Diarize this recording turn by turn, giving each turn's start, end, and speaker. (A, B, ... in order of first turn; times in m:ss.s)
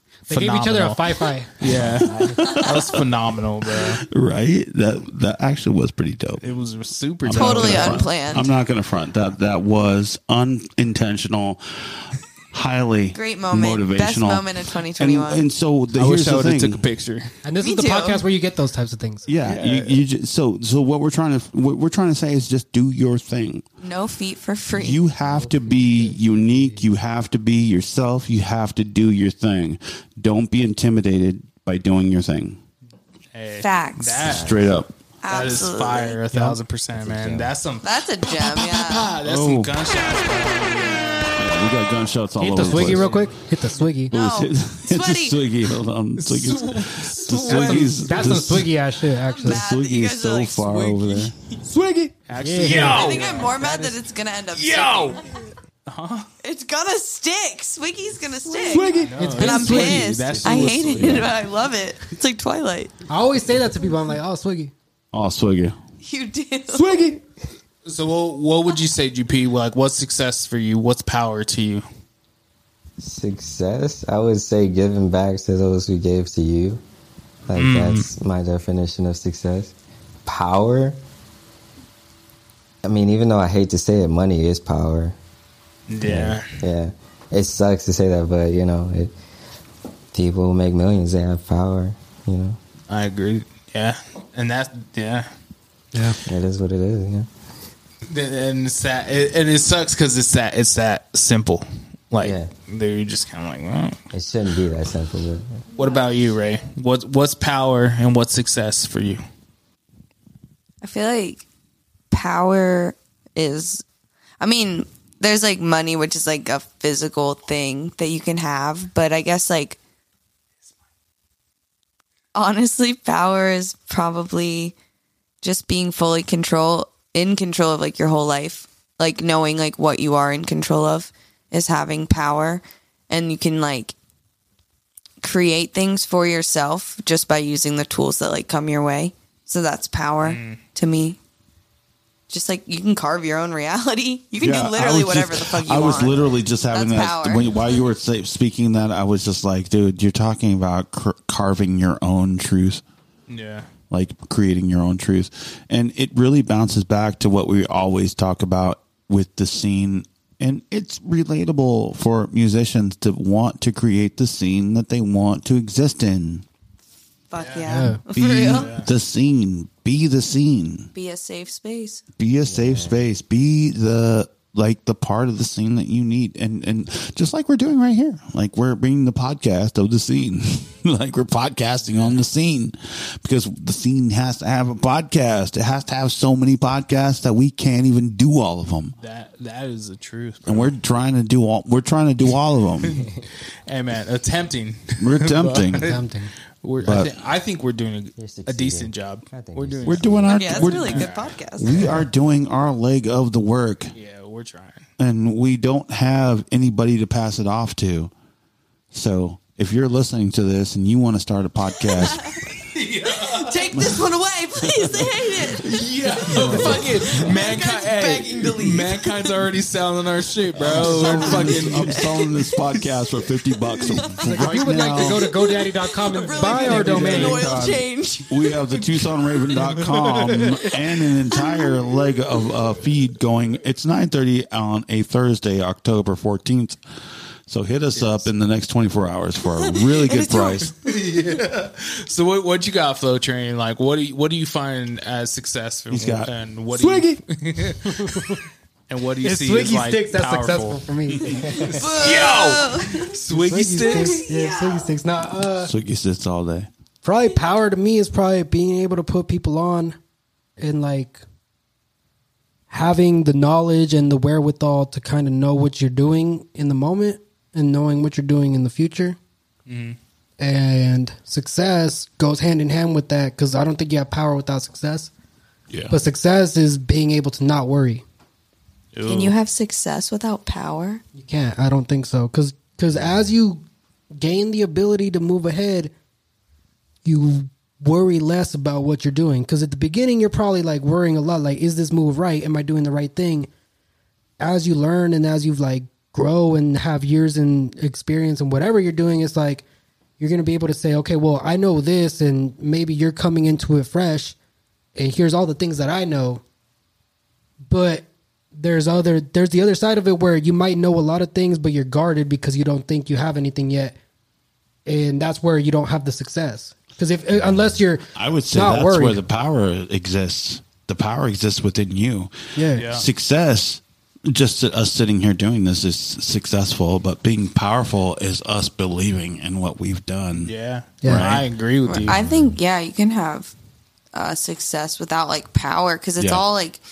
0:00.3-0:04.0 A
0:00.3-0:02.4 B
0:01.8-0:02.9 C
0:03.7-0:06.4 C
0:06.4-0:08.1 A
0:07.2-0:11.6 C
0:07.3-0:08.5 D
0:12.5-0:16.8 C
0:13.1-0:15.5 D
0:15.9-0:17.3 A
0:17.4-0:19.3 B
0:17.6-0:18.2 D
0:19.2-0:23.6 C
0:19.4-0:20.0 A
0:23.8-0:25.0 D
0:24.7-0:32.6 C
0:25.3-0:26.8 B
0:33.3-0:34.6 A
0:33.5-0:34.4 D
0:34.3-0:34.9 C
0:34.4-0:34.7 E
0:35.2-0:36.2 D
0:35.3-0:41.4 A
0:36.3-0:36.6 B
0:37.0-0:37.5 E
0:37.8-0:39.1 D
0:39.2-0:39.8 C
0:41.4-0:43.1 C
0:42.4-0:44.1 B
0:44.1-0:45.4 D
0:44.1-0:48.8 C
0:46.2-0:48.5 A
0:47.4-0:49.6 B
0:49.2-0:50.6 D
0:49.4-0:51.3 C
0:50.6-0:51.6 A
0:51.6-0:53.2 B
0:52.3-0:55.3 A
0:52.9-0:55.2 D
0:55.8-0:56.3 A
0:56.4-1:02.9 D
0:58.7-1:00.1 B
0:58.8-1:01.4 A
1:00.3-1:01.1 E
1:03.1-1:04.7 B
1:05.1-1:05.8 C
1:06.0-1:06.9 D
1:06.7-1:07.2 B
1:07.8-1:11.8 A
1:13.0-1:16.8 E
1:17.4-1:21.0 E
1:17.5-1:18.1 A
1:22.8-1:25.2 E
1:25.9-1:26.5 A
1:26.0-1:29.1 E
1:30.1-1:32.6 E
1:32.9-1:35.3 A
1:36.2-1:37.3 E
1:38.1-1:44.0 A
1:42.2-1:42.5 E
1:44.1-1:45.6 E
1:45.8-1:49.2 A
1:50.8-1:51.4 D
1:52.1-1:53.8 D
1:54.4-1:59.8 D
2:02.3-2:04.7 D
2:05.4-2:13.9 D
2:15.2-2:21.2 D
2:20.2-2:20.6 A
2:22.3-2:27.5 D
2:24.4-2:32.8 C
2:33.3-2:33.7 A
2:33.9-2:46.4 C
2:47.3-2:48.7 D
2:47.4-2:47.8 A
2:47.6-2:48.0 B
2:48.1-2:50.9 C
2:48.5-2:48.9 A
2:50.9-2:52.0 D
2:52.2-3:09.0 C
2:52.4-2:53.0 E
3:01.8-3:02.2 A
3:09.0-3:10.7 A
3:10.4-3:13.0 C
3:12.8-3:16.1 A
3:15.0-3:15.9 C
3:15.8-3:16.3 B
3:16.6-3:21.3 A
3:16.8-3:17.1 C
3:18.2-3:20.7 E
3:19.8-3:23.9 C
3:20.3-3:22.0 D
3:23.9-3:24.8 A
3:25.0-3:28.1 C
3:28.9-3:32.2 C
3:32.0-3:32.4 D
3:32.7-3:33.3 A
3:33.1-3:35.7 D
3:33.7-3:34.0 C
3:34.8-3:35.1 C
3:35.7-3:42.1 A
3:36.4-3:36.7 C
3:36.5-3:39.3 D
3:40.6-3:45.3 C
3:40.7-3:41.9 B
3:41.9-3:43.0 D
3:43.8-3:49.7 D
3:44.0-3:47.8 B
3:46.7-3:47.4 A
3:46.8-3:47.6 C
3:48.3-3:56.8 C
3:50.3-3:50.7 D
3:51.3-3:51.9 D
3:57.5-4:00.7 C
3:57.9-3:58.3 A
3:59.5-4:00.7 D
4:00.7-4:08.4 A
4:05.9-4:06.3 C
4:06.7-4:07.2 B
4:07.8-4:08.2 B
4:08.9-4:10.8 A
4:09.2-4:11.9 B
4:11.4-4:13.1 D
4:12.0-4:14.2 A
4:13.3-4:15.7 B
4:13.9-4:14.9 D
4:15.4-4:16.7 C
4:17.0-4:20.0 B
4:20.6-4:21.2 B
4:22.7-4:29.2 B
4:29.7-4:30.0 A
4:30.4-4:35.1 B
4:35.7-4:36.0 A
4:35.9-4:38.0 B
4:38.9-4:39.4 A
4:39.0-4:41.0 D
4:41.1-4:43.6 B
4:44.2-4:45.9 B
4:47.0-4:53.5 B
4:54.4-4:59.6 B
5:00.2-5:04.3 B
5:05.0-5:06.4 B
5:07.7-5:13.9 B
5:14.8-5:19.2 B
5:18.1-5:22.3 C
5:22.5-5:22.9 B
5:22.8-5:23.1 A
5:22.9-5:31.5 C
5:30.4-5:32.2 A
5:31.0-5:31.3 B
5:31.8-5:33.5 D
5:32.2-5:32.5 C
5:34.1-5:36.8 D
5:36.2-5:36.5 C